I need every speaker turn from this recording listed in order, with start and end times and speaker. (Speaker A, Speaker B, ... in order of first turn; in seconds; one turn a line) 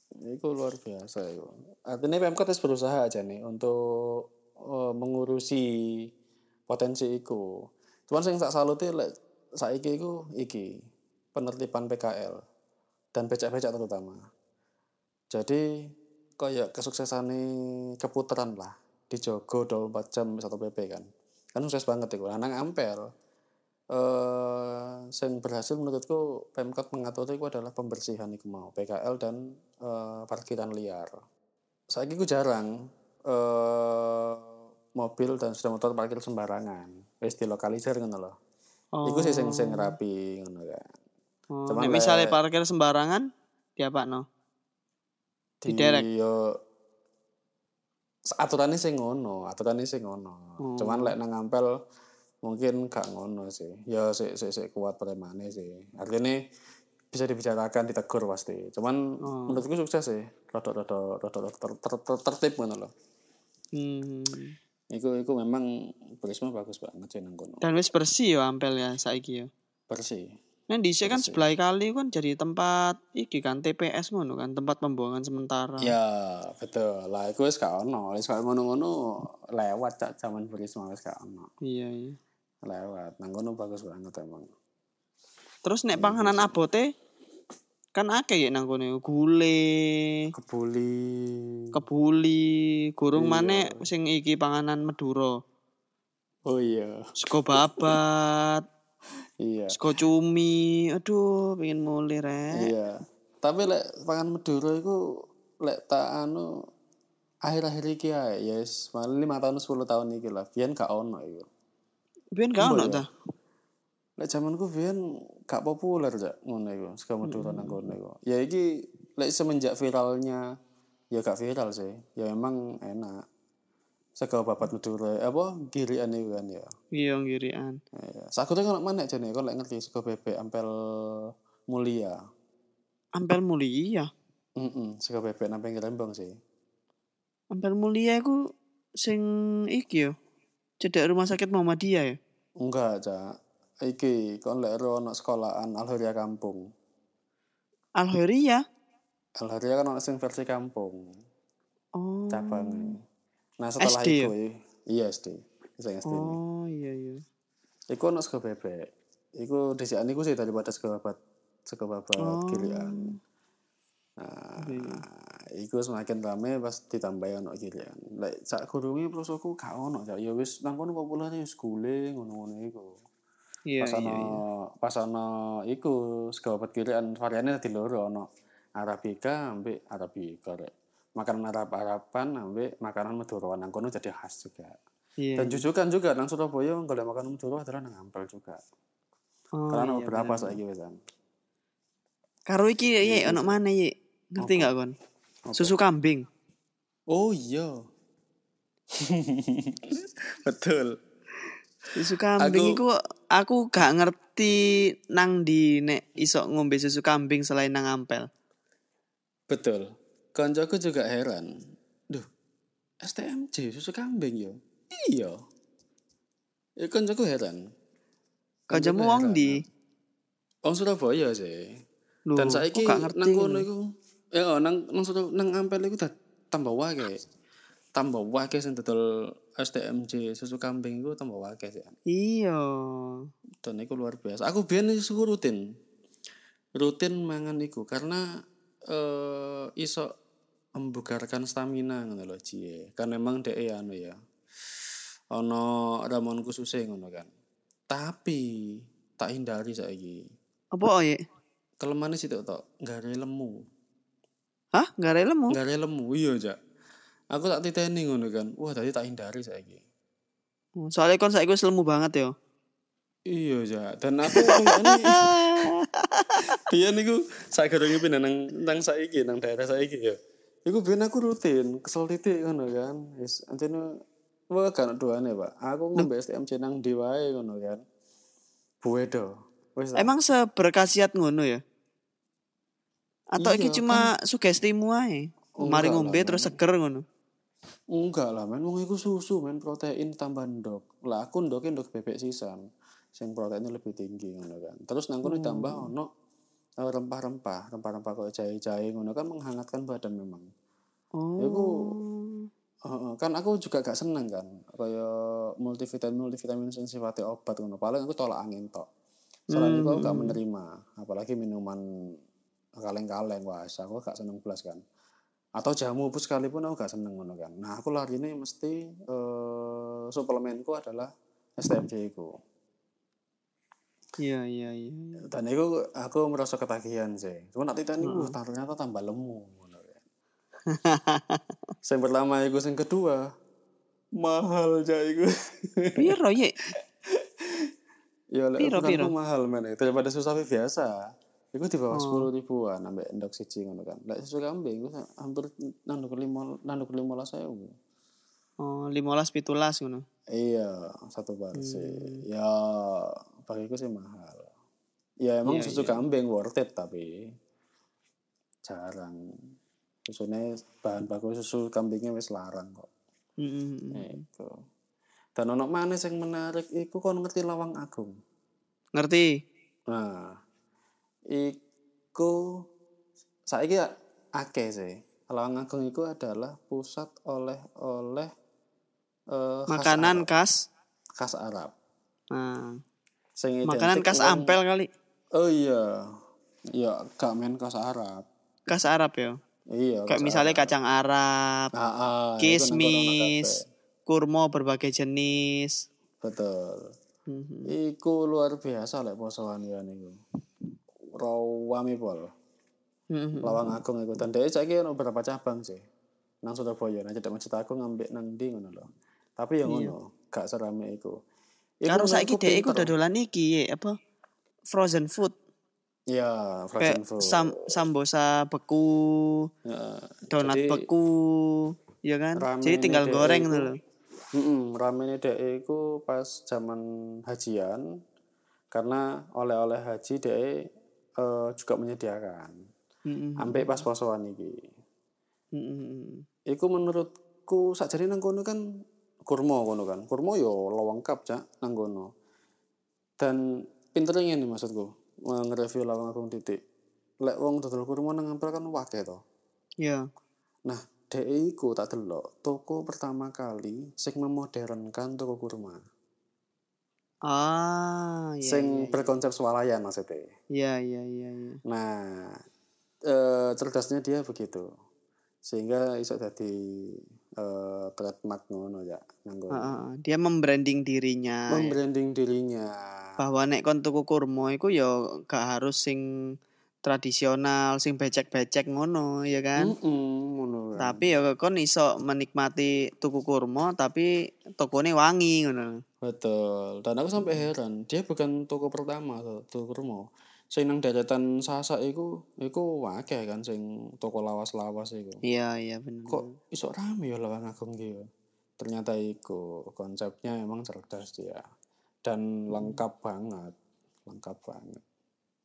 Speaker A: 0.3-6.1
Speaker A: 6.7-7.5
Speaker A: 8.1-10.7
Speaker A: 11.3-12.4
Speaker A: 13.2-14.2
Speaker A: 15.3-15.6
Speaker A: 16.4-17.5
Speaker A: 18.0-23.1
Speaker A: 23.9-31.1
Speaker A: 31.9-32.7
Speaker A: 33.3-34.5
Speaker A: 35.0-38.3
Speaker B: 39.0-39.9
Speaker A: 39.1-40.9
Speaker B: 41.6-43.2
Speaker A: 41.7-42.4
Speaker B: 43.8-44.3
Speaker A: 45.6-46.5
Speaker B: 45.7-46.1
Speaker A: 48.3-51.7
Speaker B: 50.6-51.1
Speaker A: 52.4-56.4
Speaker A: 57.1-62.9
Speaker B: 59.3-59.6
Speaker B: 63.7-64.6
Speaker A: 64.9-65.7
Speaker A: 66.2-67.7
Speaker B: 67.6-69.5
Speaker A: 69.9-70.4
Speaker B: 70.7-75.9
Speaker A: 71.0-71.4
Speaker A: 75.8-81.5
Speaker B: 81.7-82.2
Speaker A: 82.7-84.5
Speaker B: 85.7-86.9
Speaker A: 85.9-86.6
Speaker B: 88.0-90.2
Speaker A: 90.3-91.5
Speaker B: 91.7-92.5
Speaker B: 93.0-95.3
Speaker A: 93.2-93.8
Speaker A: 96.5-98.0
Speaker B: 97.2-98.6
Speaker A: 99.4-99.8
Speaker B: 99.7-102.7
Speaker A: 102.5-105.0
Speaker A: 105.6-106.5
Speaker A: 107.5-111.5
Speaker B: 112.3-113.1
Speaker A: 112.6-113.0
Speaker A: 114.2-120.4
Speaker B: 117.3-117.8
Speaker A: 121.1-123.2
Speaker A: 124.2-126.7
Speaker B: 127.0-127.8
Speaker A: 128.0-132.2
Speaker B: 133.2-134.1
Speaker A: 134.6-136.3
Speaker B: 137.5-138.4
Speaker B: 139.0-140.2
Speaker B: 140.8-142.2
Speaker A: 142.6-146.7
Speaker B: 148.0-148.6
Speaker A: 149.4-151.1
Speaker B: 152.0-152.9
Speaker A: 152.3-153.0
Speaker A: 153.6-156.4
Speaker B: 153.8-154.3
Speaker B: 156.1-157.2
Speaker A: 157.9-161.2
Speaker A: 161.7-163.1
Speaker B: 162.2-163.2
Speaker A: 164.2-173.0
Speaker B: 164.6-165.0
Speaker B: 173.7-174.4
Speaker A: 173.8-178.3
Speaker A: 178.8-184.8
Speaker B: 185.2-185.6
Speaker A: 185.4-188.6
Speaker B: 189.6-190.6
Speaker A: 189.7-191.0
Speaker B: 192.5-194.9
Speaker A: 193.0-193.6
Speaker A: 194.4-194.7
Speaker A: 195.5-195.8
Speaker B: 195.6-196.3
Speaker A: 197.1-197.8
Speaker A: 199.0-201.0
Speaker B: 202.0-204.6
Speaker A: 202.4-202.8
Speaker B: 205.1-208.3
Speaker A: 209.5-211.5
Speaker A: 213.0-215.4
Speaker A: 216.8-217.7
Speaker B: 218.7-219.6
Speaker A: 218.7-219.6
Speaker A: 220.7-221.8
Speaker B: 222.3-223.7
Speaker A: 222.4-227.2
Speaker A: 228.0-229.0
Speaker A: 229.6-232.0
Speaker B: 232.1-233.3
Speaker A: 233.6-235.6
Speaker A: 236.8-238.3
Speaker A: 238.9-240.1
Speaker A: 240.8-244.2
Speaker A: 245.3-247.3
Speaker A: 247.9-250.3
Speaker B: 250.7-251.2
Speaker A: 251.8-253.6
Speaker B: 254.8-255.6
Speaker A: 255.5-256.6
Speaker A: 257.3-259.9
Speaker B: 260.8-262.3
Speaker A: 263.3-265.6
Speaker B: 264.3-266.4
Speaker A: 266.6-273.9
Speaker A: 274.5-277.8
Speaker A: 278.8-280.1
Speaker B: 280.0-281.6
Speaker B: 283.4-287.0
Speaker A: 283.4-284.1
Speaker A: 285.6-286.6
Speaker A: 287.9-292.6
Speaker A: 293.1-296.1
Speaker B: 295.2-295.9
Speaker A: 296.8-300.5
Speaker B: 301.2-302.5
Speaker A: 301.4-301.9
Speaker A: 302.9-308.9
Speaker B: 309.5-310.4
Speaker A: 309.5-311.8
Speaker A: 312.8-314.8
Speaker A: 315.6-322.3
Speaker B: 324.2-325.2
Speaker A: 325.3-330.0
Speaker B: 328.0-328.3
Speaker B: 330.7-331.4
Speaker A: 331.8-333.3
Speaker A: 334.2-336.2
Speaker B: 336.0-336.5
Speaker A: 338.4-341.0
Speaker B: 338.6-339.1
Speaker A: 341.5-347.7
Speaker B: 341.9-342.3
Speaker B: 348.6-350.0
Speaker A: 350.3-354.5
Speaker B: 351.6-352.2
Speaker A: 355.2-357.1
Speaker B: 355.5-356.0
Speaker A: 358.7-359.2
Speaker A: 360.1-362.9
Speaker B: 363.4-364.2
Speaker A: 363.9-364.6
Speaker A: 365.4-368.1
Speaker B: 368.9-369.3
Speaker A: 369.9-370.4
Speaker A: 371.3-371.6
Speaker A: 373.5-378.3
Speaker A: 379.3-380.3
Speaker B: 379.7-380.6
Speaker A: 381.2-381.7
Speaker B: 382.3-382.8
Speaker A: 383.4-384.6
Speaker B: 383.7-384.9
Speaker A: 385.4-386.1
Speaker A: 386.7-388.3
Speaker B: 388.7-389.4
Speaker A: 389.7-390.7
Speaker B: 390.1-391.7
Speaker A: 391.8-393.6
Speaker B: 392.4-393.5
Speaker B: 394.1-395.9
Speaker A: 396.2-396.9
Speaker B: 397.3-397.7
Speaker A: 397.7-400.2
Speaker A: 401.1-402.3
Speaker B: 403.1-403.8
Speaker A: 403.4-405.8
Speaker A: 406.4-408.9
Speaker A: 409.4-411.2
Speaker B: 409.7-409.9
Speaker A: 411.8-412.9
Speaker B: 411.9-413.9
Speaker B: 414.7-415.4
Speaker A: 416.1-417.7
Speaker B: 416.8-419.5
Speaker A: 419.7-420.9
Speaker B: 420.3-423.8
Speaker A: 422.4-423.7
Speaker A: 424.3-427.8
Speaker A: 428.7-430.6
Speaker A: 431.2-432.6
Speaker B: 433.1-433.7
Speaker A: 433.4-434.6
Speaker B: 435.5-436.2
Speaker A: 436.5-438.6
Speaker A: 439.3-442.1
Speaker A: 443.2-446.6
Speaker A: 447.2-449.2
Speaker A: 450.7-455.8
Speaker B: 457.3-459.0
Speaker A: 458.4-460.3
Speaker B: 460.6-461.6
Speaker A: 461.7-462.4
Speaker A: 463.1-464.7
Speaker A: 465.5-469.7
Speaker B: 469.5-471.7
Speaker A: 471.5-473.2
Speaker B: 473.2-476.0
Speaker B: 476.8-479.7
Speaker A: 479.6-481.1
Speaker B: 480.8-485.7
Speaker A: 486.0-495.2
Speaker B: 487.2-487.5
Speaker B: 495.2-496.3
Speaker A: 496.1-498.1
Speaker A: 498.6-501.4
Speaker A: 502.1-503.5
Speaker B: 502.5-502.8
Speaker A: 504.1-504.8